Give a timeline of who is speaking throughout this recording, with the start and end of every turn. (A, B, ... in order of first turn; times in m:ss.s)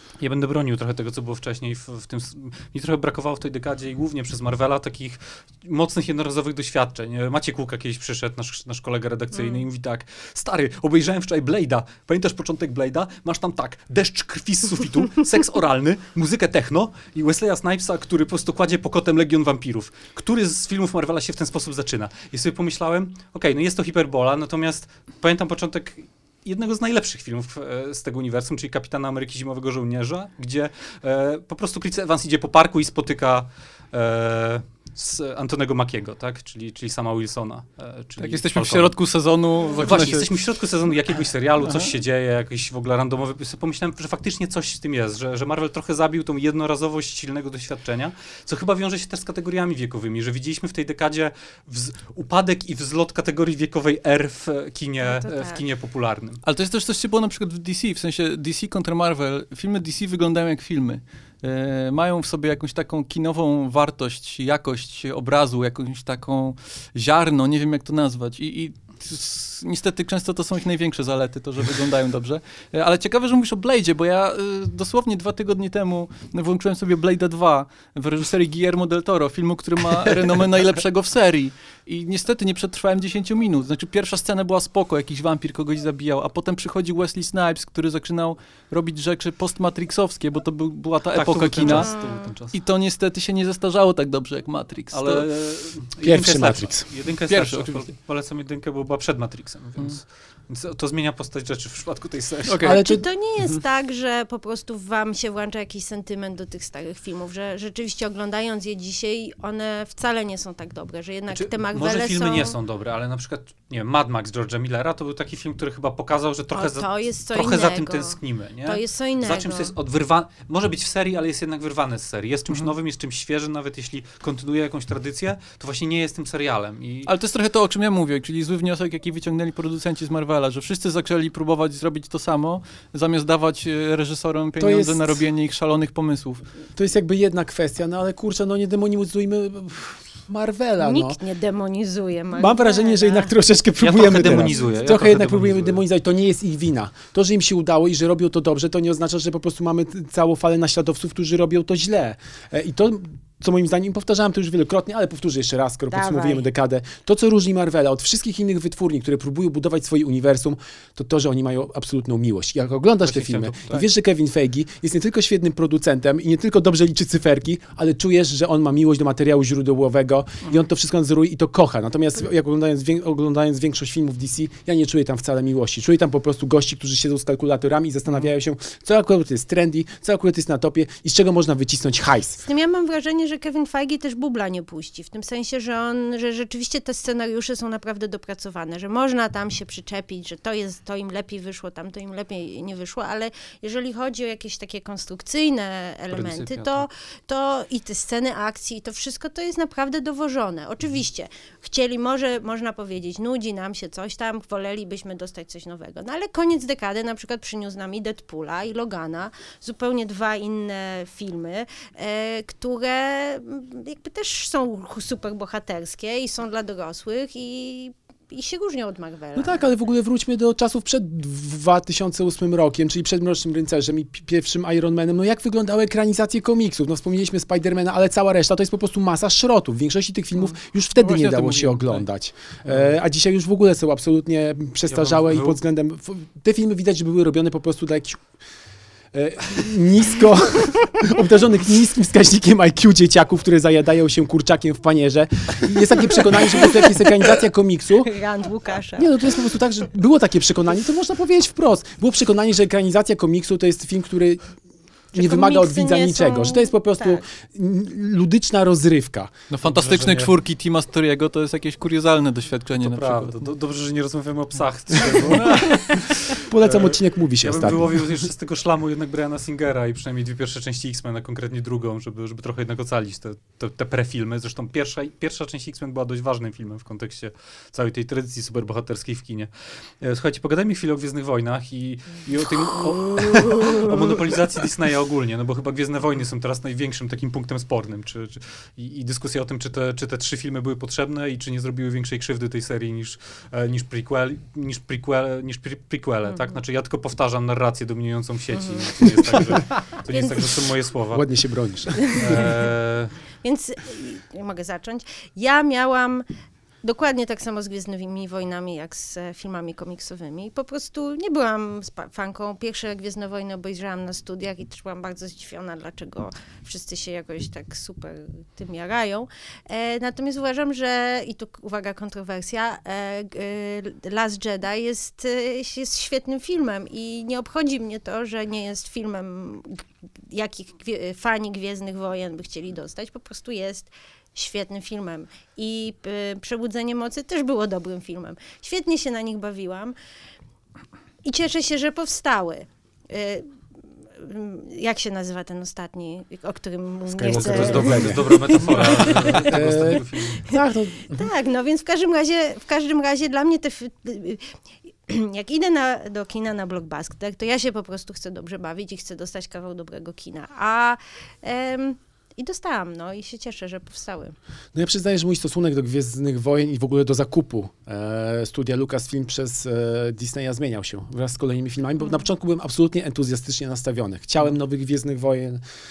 0:00.2-0:39.0 A
0:09.3-0:09.6 B
0:38.2-0:40.4 C
0:39.8-0:56.4 A
0:41.6-0:41.9 C
0:55.0-0:55.6 B
0:56.4-1:31.9 C
1:31.1-1:32.6 A
1:31.6-1:32.3 B
1:32.5-1:35.3 C
1:34.9-1:42.6 A
1:36.0-1:36.9 D
1:37.3-1:37.9 C
1:42.5-1:42.8 C
1:42.6-1:52.6 B
1:42.6-1:43.6 D
1:51.3-2:07.1 A
1:56.5-1:59.7 B
2:07.0-2:16.4 C
2:14.6-2:15.2 D
2:16.8-2:21.2 D
2:20.8-2:23.3 B
2:22.3-3:02.4 D
2:23.8-2:25.8 A
2:24.3-2:24.7 B
2:35.9-2:36.4 B
2:43.0-2:43.8 A
3:02.4-3:39.7 B
3:16.1-3:16.8 A
3:39.3-3:58.3 D
3:50.3-3:52.0 C
3:54.9-3:55.6 A
3:59.1-4:08.1 D
4:06.5-4:07.1 B
4:08.0-4:09.3 B
4:09.0-4:14.4 D
4:15.1-4:19.3 D
4:15.1-4:17.2 B
4:19.5-4:23.4 C
4:19.6-4:20.3 A
4:22.8-5:01.2 A
4:25.1-4:25.7 C
4:26.3-4:28.0 D
4:56.2-4:56.5 B
4:58.5-5:00.6 B
5:01.1-5:02.4 D
5:02.1-5:02.5 B
5:02.1-5:03.2 A
5:03.4-5:06.2 B
5:06.8-5:39.9 B
5:41.2-5:43.5 B
5:44.1-5:54.5 B
5:47.1-5:51.3 D
5:47.3-5:50.5 A
5:55.1-6:04.4 B
6:04.7-6:15.6 D